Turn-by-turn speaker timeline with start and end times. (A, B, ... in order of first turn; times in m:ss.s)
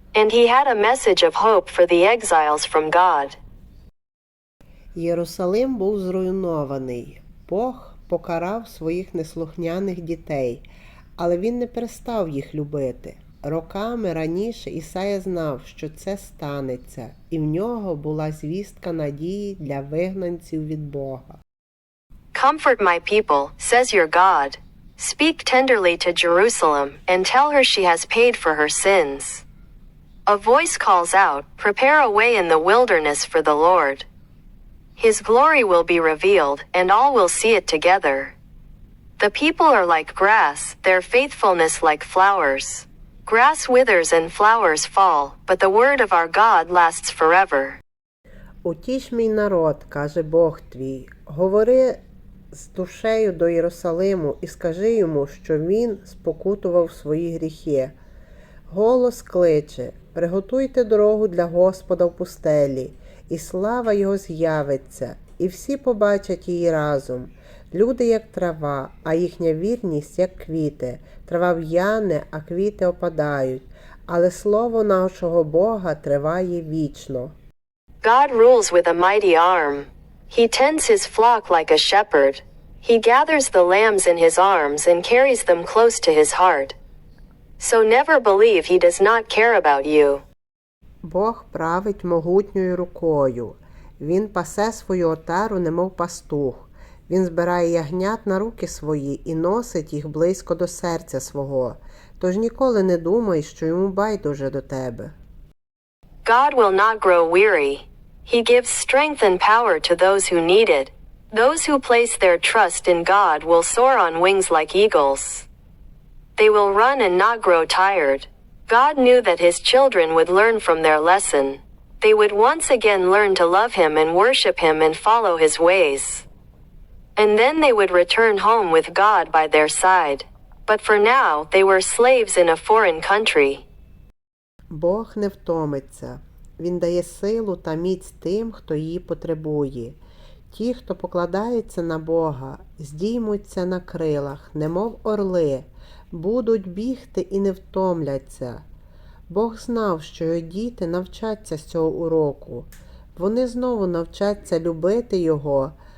0:00.1-0:03.4 A
0:05.0-0:10.6 B
0:11.2-0:21.4 B
0:22.3-0:29.4 A
0:30.3-0:34.1 A
0:35.0-0:38.4 A
0:39.2-0:47.8 A
0:48.6-0:58.0 B
0:58.7-1:17.3 B
1:18.0-1:26.8 A
1:27.6-1:30.2 A
1:31.0-1:45.1 B
1:46.2-1:55.5 A
1:56.4-2:06.3 A
2:07.2-2:13.6 A
2:14.7-2:20.0 B
2:20.5-2:28.6 B
2:29.3-2:35.8 B